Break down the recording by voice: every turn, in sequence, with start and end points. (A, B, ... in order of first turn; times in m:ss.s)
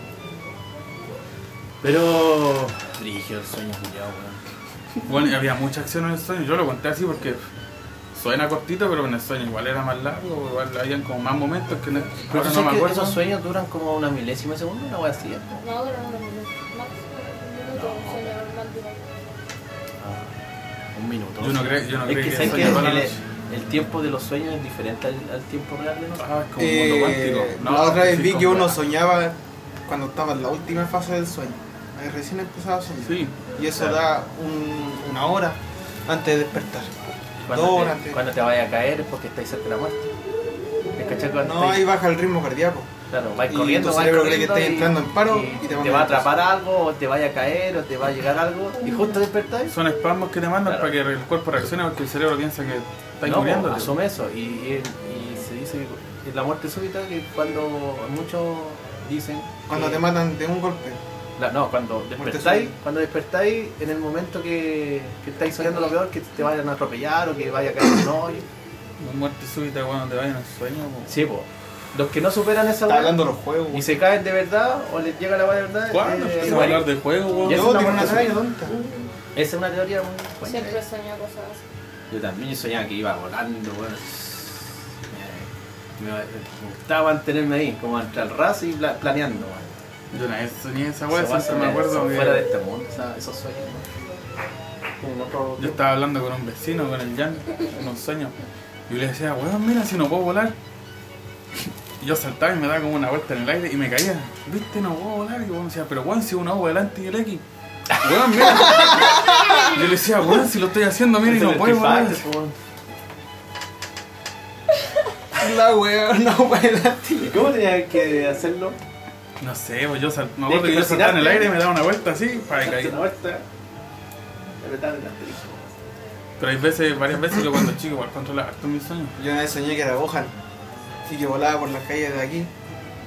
0:01.8-0:04.5 A
0:05.1-0:07.4 B
0:08.1-0:13.2 B
0:12.3-0:15.6 A
0:15.6-0:19.0 C
0:17.7-0:18.3 A
0:20.0-0:20.3 A
0:20.9-0:26.3 A
0:21.4-0:23.2 B
0:26.2-0:28.8 B
0:26.6-0:36.9 D
0:33.0-0:33.4 B
0:37.5-0:40.1 A
0:37.5-0:38.2 D
0:41.0-0:41.9 A
0:41.4-0:42.9 D
0:43.1-0:49.7 A
0:43.5-0:46.4 D
0:49.7-0:54.0 B
0:50.6-0:50.9 A
0:53.2-1:00.1 A
0:59.7-1:01.0 D
1:01.4-1:08.5 A
1:02.2-1:02.7 D
1:09.0-1:11.2 B
1:11.1-1:16.9 A
1:12.9-1:13.9 D
1:15.9-1:18.2 B
1:17.4-1:18.4 A
1:17.5-1:18.8 D
1:19.3-1:20.8 A
1:20.4-1:21.6 C
1:22.1-1:29.7 A
1:30.1-1:32.5 B
1:31.1-1:33.8 A
1:35.0-1:35.8 A
1:35.6-1:38.4 B
1:38.9-1:40.6 B
1:41.6-1:47.4 B
1:47.9-1:49.3 A
1:48.0-1:52.2 B
1:48.7-1:49.7 D
1:51.2-1:52.6 A
1:55.4-1:57.5 D
1:57.2-1:58.8 A
1:59.4-2:03.0 B
2:00.5-2:01.5 A
2:02.6-2:03.4 A
2:04.6-2:05.6 A
2:06.4-2:09.2 B
2:09.2-2:10.3 D
2:11.1-2:12.5 D